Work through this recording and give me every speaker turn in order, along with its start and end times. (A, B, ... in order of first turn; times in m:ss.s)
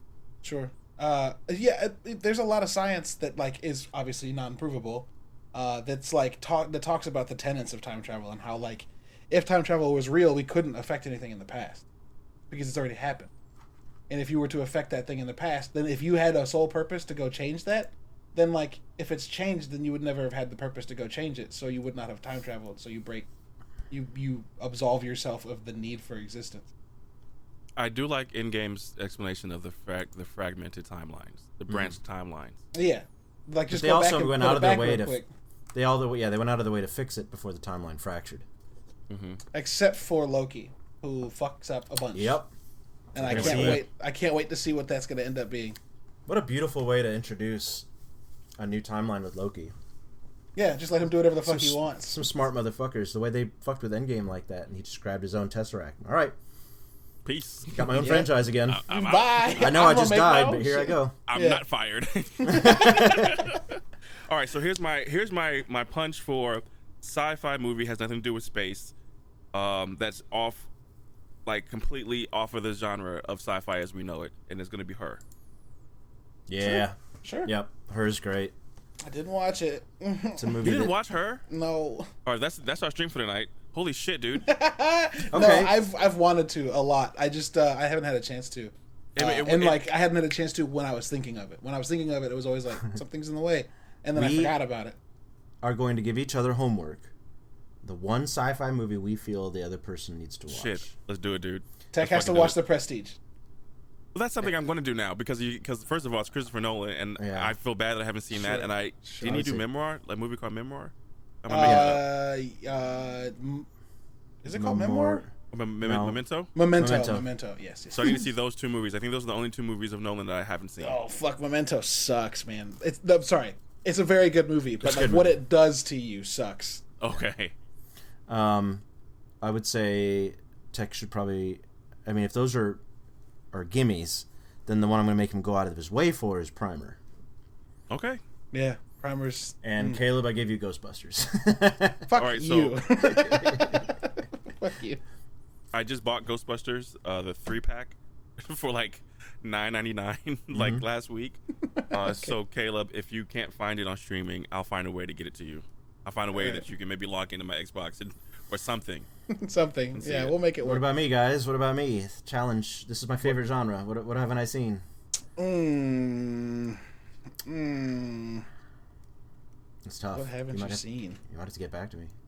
0:00.4-0:11.8 A
0:12.5-0:13.3 A
0:14.1-0:23.3 A
0:23.9-0:26.7 A
0:27.8-0:32.6 B
0:31.7-0:32.0 C
0:32.7-0:35.3 A
0:33.7-0:35.2 C
0:35.7-0:38.4 C
0:39.1-0:39.4 B
0:39.5-0:42.4 A
0:42.1-0:42.5 C
0:43.2-0:43.9 C
0:43.2-0:45.8 A
0:43.3-0:43.8 B
0:46.3-0:47.9 C
0:48.6-0:49.7 C
0:50.6-0:52.3 A
0:51.4-0:56.4 C
0:57.2-0:58.0 B
0:57.7-0:58.8 C
0:57.9-0:58.4 A
0:58.6-0:59.8 B
0:58.9-1:01.6 A
0:59.6-1:01.2 C
1:01.3-1:03.7 B
1:02.4-1:03.5 A
1:02.5-1:03.4 C
1:04.3-1:08.9 B
1:09.5-1:10.7 B
1:11.5-1:15.2 B
1:16.5-1:18.6 C
1:16.6-1:17.5 A
1:19.1-1:20.7 A
1:20.4-1:20.9 C
1:20.6-1:21.4 B
1:21.5-1:22.1 A
1:22.2-1:24.5 B
1:24.4-1:35.0 A
1:25.3-1:25.8 C
1:29.2-1:29.9 B
1:34.2-1:34.5 C
1:35.6-1:37.1 C
1:37.8-1:40.9 C
1:40.5-1:42.6 B
1:41.9-1:43.2 A
1:44.1-1:52.0 B
1:47.2-1:47.6 C
1:48.4-1:49.4 A
1:49.2-1:49.7 C
1:51.5-1:53.7 A
1:51.6-1:52.0 C
1:54.4-1:55.2 A
1:54.5-1:56.2 C
1:55.5-1:56.5 B
1:56.6-1:58.3 A
1:56.8-1:57.3 C
1:57.9-2:01.0 B
2:00.8-2:06.8 A
2:04.8-2:05.4 C
2:07.0-2:07.5 B
2:08.3-2:08.8 C
2:09.4-2:12.8 C
2:13.5-2:17.0 C
2:17.9-2:18.2 B
2:18.5-2:20.0 A
2:19.6-2:22.1 C
2:22.1-2:25.0 A
2:22.2-2:22.8 B
2:23.1-2:23.8 C
2:25.7-2:31.4 B
2:30.5-2:30.8 C
2:31.7-2:32.4 A
2:31.9-2:39.1 B
2:36.3-2:36.7 A
2:39.3-2:40.8 A
2:40.0-2:40.4 B
2:40.6-2:44.8 C
2:45.4-2:46.8 A
2:47.4-2:48.4 A
2:49.8-2:52.1 C
2:50.1-2:51.2 A